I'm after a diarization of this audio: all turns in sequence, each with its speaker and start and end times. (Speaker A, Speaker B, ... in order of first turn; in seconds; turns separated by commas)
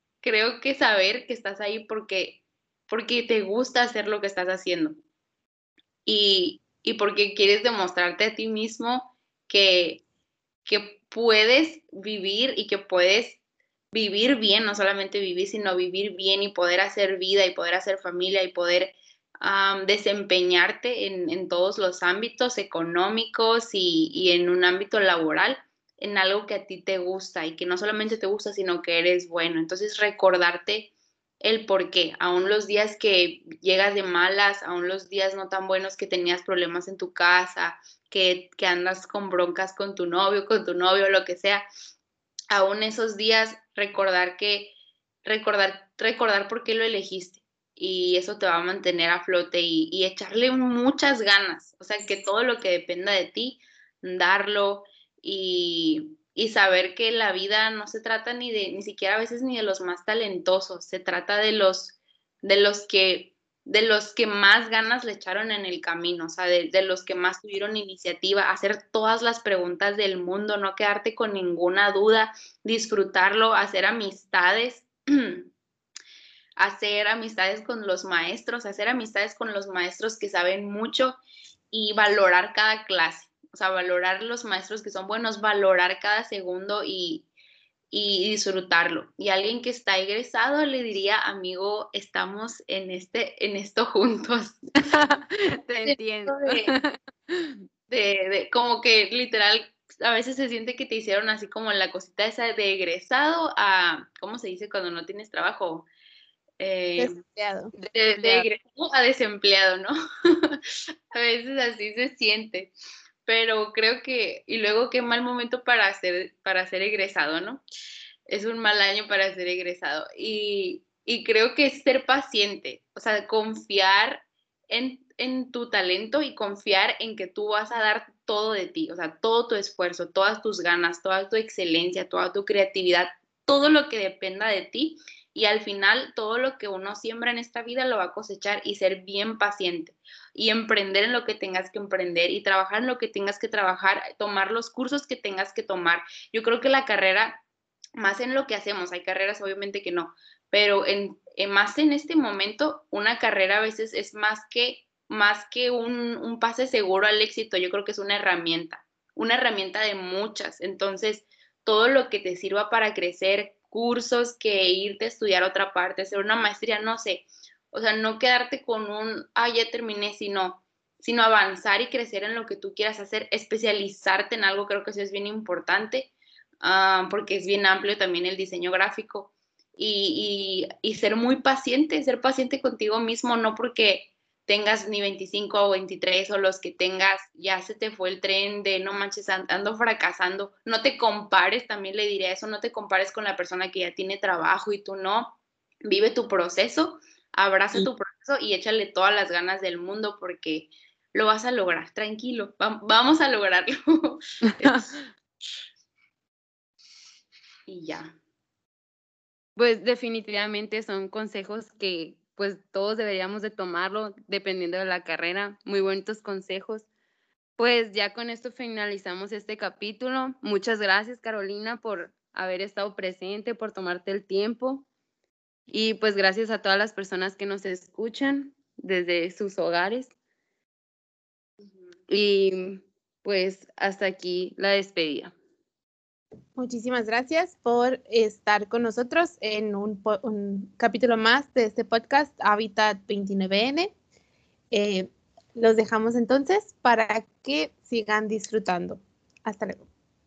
Speaker A: 0.2-4.9, Speaker A: 6.0-10.0, Speaker A: 10.6-13.4, Speaker A: 13.9-41.6, Speaker A: 42.5-44.7, Speaker A: 45.2-75.5, Speaker A: 76.6-81.2, Speaker A: 81.7-87.3, Speaker A: 87.9-94.6, Speaker B: 94.8-97.6, Speaker A: 95.8-96.7, Speaker A: 97.9-105.9, Speaker A: 106.6-107.2, Speaker C: 107.0-107.7, Speaker B: 107.7-108.5, Speaker A: 108.0-109.9, Speaker A: 111.1-112.7, Speaker A: 113.2-117.6, Speaker A: 118.3-147.4, Speaker A: 148.0-204.9, Speaker B: 204.6-204.9, Speaker A: 207.7-208.1, Speaker B: 209.6-216.9, Speaker B: 217.6-224.8, Speaker B: 225.7-230.1, Speaker B: 232.1-235.3, Speaker C: 236.6-243.9, Speaker C: 244.7-249.9